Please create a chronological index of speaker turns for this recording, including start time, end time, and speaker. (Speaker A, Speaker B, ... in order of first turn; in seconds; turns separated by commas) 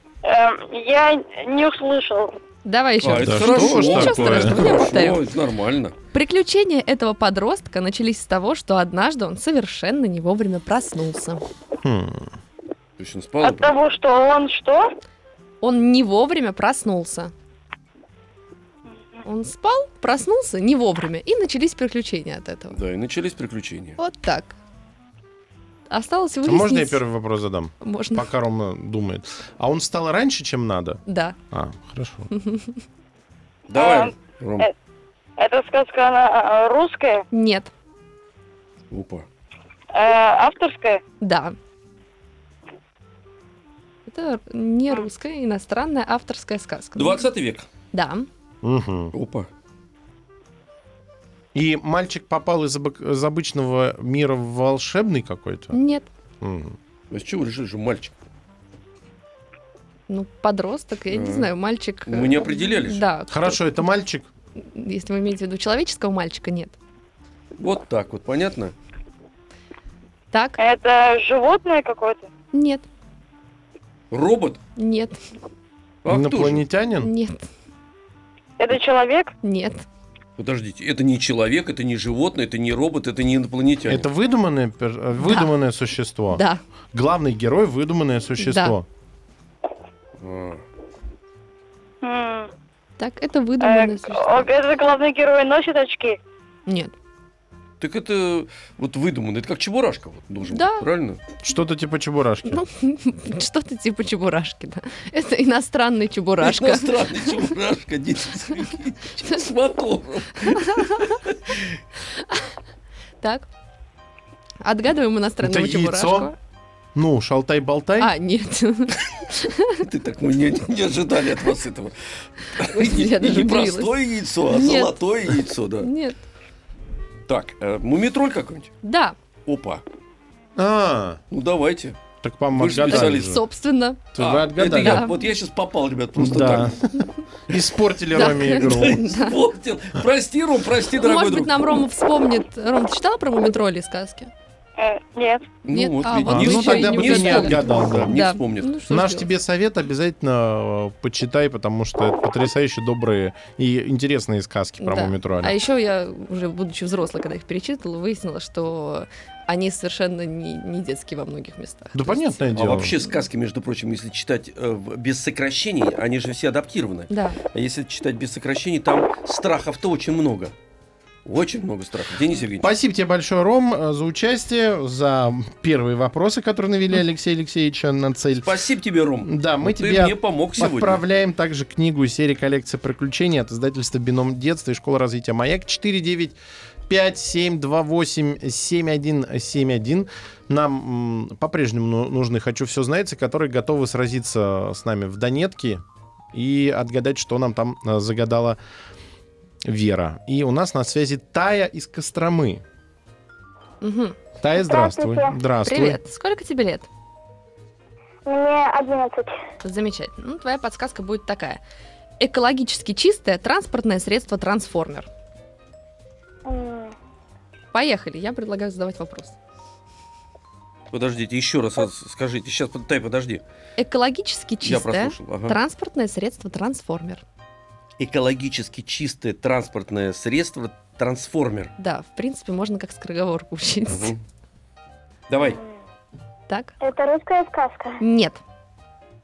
Speaker A: 0.2-2.4, Speaker B: 2.6-5.2, Speaker C: 3.0-6.0, Speaker D: 3.1-4.7, Speaker B: 6.1-11.4, Speaker D: 11.8-12.3, Speaker C: 13.0-13.7, Speaker A: 13.4-14.9, Speaker B: 15.6-17.3, Speaker B: 19.2-22.8, Speaker C: 22.7-24.0, Speaker B: 24.0-24.5, Speaker B: 25.9-27.0, Speaker D: 26.4-32.3, Speaker B: 27.8-28.3, Speaker B: 31.1-31.4, Speaker B: 32.3-32.8, Speaker C: 33.7-34.7, Speaker A: 33.7-34.7, Speaker A: 35.4-37.2, Speaker B: 37.3-37.7, Speaker C: 38.9-39.2, Speaker A: 39.9-41.0, Speaker B: 41.2-41.5, Speaker B: 44.1-47.2, Speaker C: 47.0-47.6, Speaker B: 47.9-48.3, Speaker D: 48.6-49.1, Speaker C: 49.1-49.5, Speaker D: 51.5-55.7, Speaker B: 55.7-56.1, Speaker D: 56.4-56.8, Speaker C: 57.1-58.1, Speaker B: 60.1-63.6, Speaker C: 61.1-61.5, Speaker C: 62.0-63.0, Speaker D: 63.3-64.3, Speaker B: 64.6-66.8, Speaker C: 67.6-68.7, Speaker B: 70.3-70.6, Speaker A: 70.6-72.3, Speaker B: 72.5-72.8, Speaker C: 74.1-74.6, Speaker B: 74.8-75.2, Speaker C: 76.0-76.6, Speaker D: 76.1-77.1, Speaker B: 77.0-77.4, Speaker A: 78.6-79.3, Speaker B: 79.4-79.8, Speaker C: 80.4-84.1, Speaker D: 83.8-88.9, Speaker B: 85.2-85.5, Speaker B: 86.3-86.6, Speaker B: 88.4-88.8, Speaker C: 90.2-90.6, Speaker A: 92.0-92.5, Speaker B: 93.0-94.5, Speaker A: 93.6-96.2, Speaker B: 96.7-96.9, Speaker C: 97.8-101.2, Speaker B: 100.5-100.8, Speaker D: 101.4-102.6, Speaker B: 102.5-107.4, Speaker C: 106.4-111.8, Speaker B: 110.4-111.2, Speaker B: 112.1-112.4, Speaker B: 113.2-113.5, Speaker B: 114.6-116.3, Speaker D: 115.4-116.3, Speaker D: 116.9-118.1, Speaker B: 118.0-119.8, Speaker C: 119.8-121.9, Speaker C: 122.5-125.9, Speaker B: 122.6-123.9, Speaker B: 124.5-125.0, Speaker B: 125.8-126.2, Speaker C: 127.3-128.7, Speaker B: 128.8-129.2, Speaker C: 129.4-129.8, Speaker D: 130.6-131.2, Speaker C: 131.3-132.0, Speaker D: 132.2-133.4, Speaker C: 132.5-133.4, Speaker B: 132.9-134.1, Speaker D: 134.1-135.1, Speaker C: 134.2-136.8, Speaker B: 134.8-135.2, Speaker D: 136.2-139.0, Speaker C: 137.5-141.7, Speaker B: 138.1-139.4, Speaker B: 140.9-144.3, Speaker A: 144.8-145.5, Speaker C: 145.7-148.7, Speaker B: 145.7-149.3, Speaker D: 146.2-148.2, Speaker D: 148.9-155.6, Speaker B: 154.8-162.5, Speaker D: 161.9-163.0, Speaker C: 162.5-170.5, Speaker B: 167.1-167.4, Speaker C: 171.2-172.7, Speaker D: 172.6-178.5, Speaker C: 178.4-181.0, Speaker D: 179.2-198.6, Speaker D: 199.6-202.6, Speaker B: 203.8-204.2, Speaker D: 204.4-206.0, Speaker E: 204.6-205.4, Speaker B: 205.6-206.9, Speaker E: 208.2-209.3, Speaker B: 209.6-211.6, Speaker B: 212.2-215.1, Speaker E: 216.4-216.9, Speaker B: 217.7-219.3, Speaker C: 220.9-223.4, Speaker B: 223.8-227.2, Speaker C: 224.6-225.6, Speaker C: 228.0-231.7, Speaker B: 231.8-234.1, Speaker C: 233.9-234.2, Speaker C: 235.3-235.6, Speaker B: 236.5-236.8, Speaker E: 236.8-238.0, Speaker B: 238.0-238.4